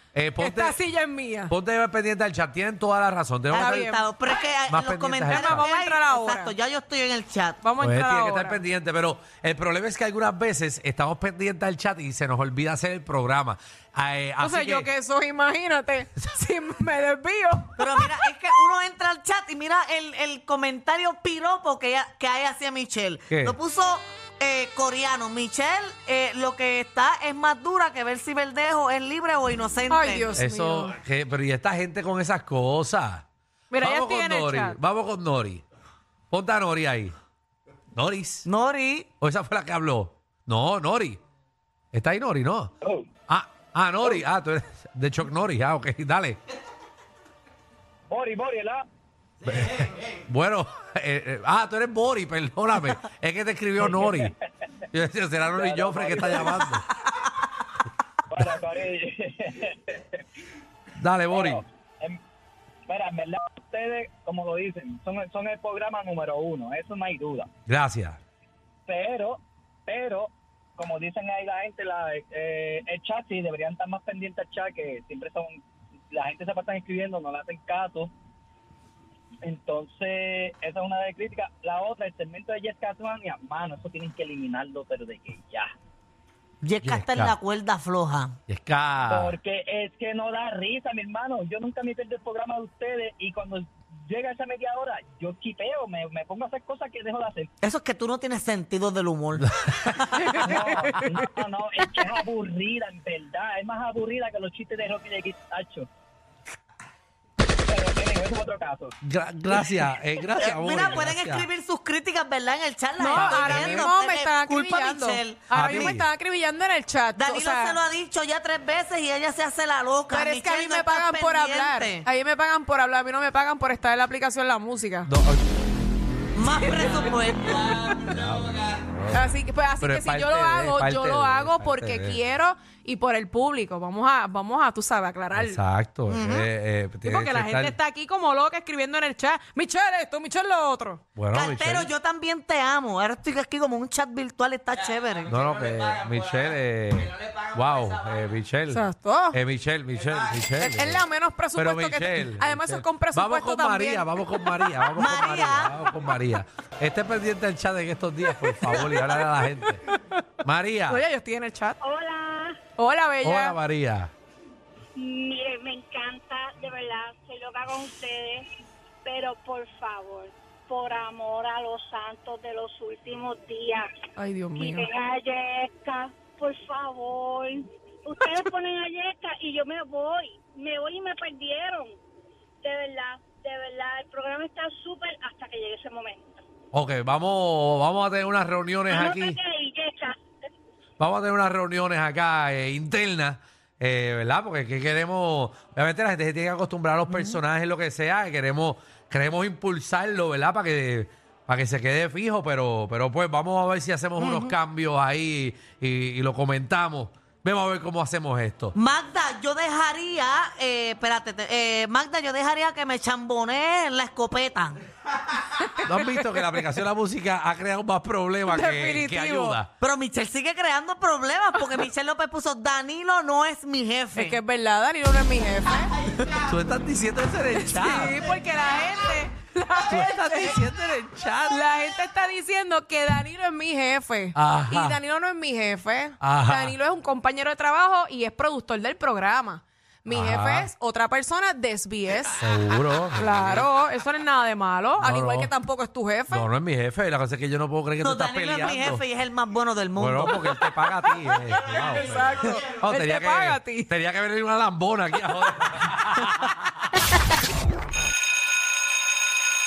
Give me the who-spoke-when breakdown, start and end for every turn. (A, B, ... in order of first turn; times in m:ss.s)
0:00.1-0:00.8 A
0:00.4-0:01.5 B
0:01.5-0:03.9 A
0:03.5-0:07.6 C
0:03.5-0:04.1 B
0:04.7-0:05.7 A
0:05.3-0:06.5 B
0:07.6-0:08.6 B
0:07.8-0:14.9 A
0:14.4-0:18.3 B
0:17.8-0:30.3 C
0:23.3-0:23.6 A
0:29.9-0:31.0 B
0:30.4-0:33.2 A
0:33.7-0:34.8 B
0:33.8-0:35.6 A
0:36.3-0:37.1 A
0:37.9-0:38.4 A
0:38.4-0:39.1 C
0:39.2-0:41.2 A
0:41.9-0:42.7 A
0:43.3-0:46.4 A
0:48.1-0:48.8 D
0:49.4-0:54.3 A
0:53.8-0:54.3 D
0:54.9-0:56.8 A
0:55.5-0:56.6 D
0:58.3-1:00.2 D
1:01.0-1:01.6 A
1:01.3-1:02.2 D
1:02.9-1:07.5 D
1:07.7-1:08.2 A
1:08.9-1:15.6 D
1:16.1-1:18.1 D
1:19.4-1:25.7 D
1:26.6-1:28.4 C
1:26.8-1:27.4 A
1:28.5-1:29.4 A
1:29.1-1:37.5 D
1:37.6-1:39.4 C
1:39.4-1:39.9 A
1:40.2-1:41.2 B
1:40.4-1:45.9 D
1:47.7-1:48.9 D
1:49.0-1:51.5 A
1:50.3-1:55.9 C
1:53.0-1:57.8 B
1:53.1-1:53.9 A
1:55.5-1:56.1 A
1:57.2-2:02.0 C
2:00.1-2:05.1 B
2:05.0-2:05.5 A
2:06.3-2:08.0 C
2:07.9-2:12.2 A
2:09.1-2:15.6 B
2:15.3-2:17.7 A
2:16.1-2:16.5 C
2:17.0-2:21.0 B
2:21.2-2:21.9 A
2:21.3-2:25.3 C
2:25.3-2:39.8 A
2:28.7-2:29.4 B
2:30.6-2:34.4 B
2:35.0-2:35.7 C
2:39.4-2:40.2 B
2:40.4-2:41.0 A
2:40.9-2:41.8 B
2:41.8-2:42.6 E
2:42.8-2:43.6 B
2:43.2-2:44.1 A
2:45.0-2:48.4 E
2:49.0-2:53.9 E
2:54.2-2:54.9 B
2:54.5-3:01.9 E
3:02.6-3:06.4 E
3:06.7-3:09.4 A
3:08.9-3:10.2 E
3:11.0-3:28.7 A
3:17.1-3:17.4 C
3:24.2-3:24.5 C
3:28.7-3:34.8 C
3:35.8-3:39.7 A
3:38.5-3:39.6 B
3:39.8-3:44.4 C
3:44.1-3:46.3 B
3:46.4-3:48.2 A
3:47.5-3:50.6 B
3:49.9-3:51.6 A
3:51.5-4:02.4 B
3:54.3-3:55.0 A
3:56.2-3:56.8 A
4:00.1-4:00.7 A
4:02.4-4:03.7 A
4:03.2-4:06.5 B
4:05.0-4:05.5 A
4:06.3-4:09.0 A
4:08.0-4:10.6 C
4:10.0-4:16.6 A
4:11.7-4:13.9 B